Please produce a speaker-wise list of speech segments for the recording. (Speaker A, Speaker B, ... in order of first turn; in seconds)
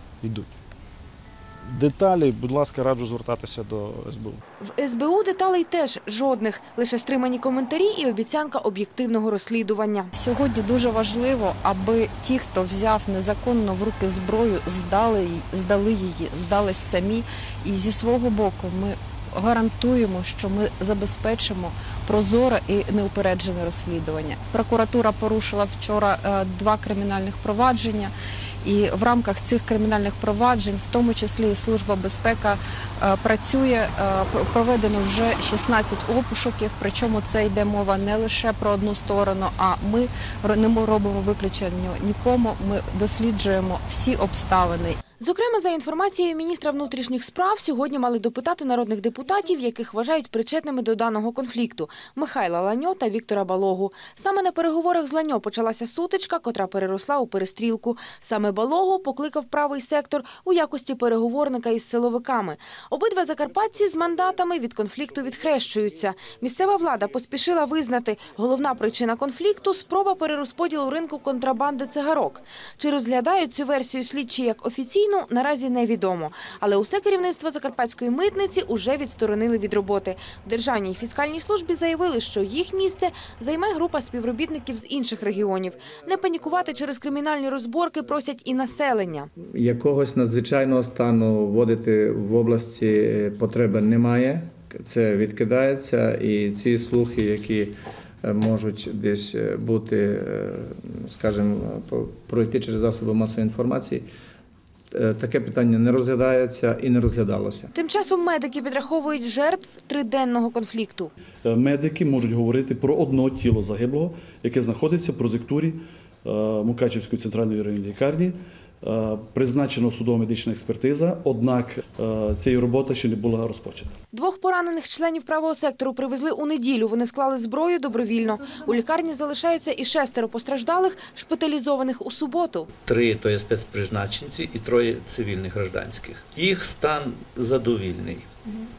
Speaker A: 0.2-0.5, 1.6-4.4
Speaker B: 4.6-10.1, 45.2-89.3, 107.8-111.1, 124.1-132.7
Speaker C: 10.2-45.0
Speaker D: 89.4-104.1, 104.9-107.7
Speaker E: 111.5-123.9
Speaker F: 132.8-138.3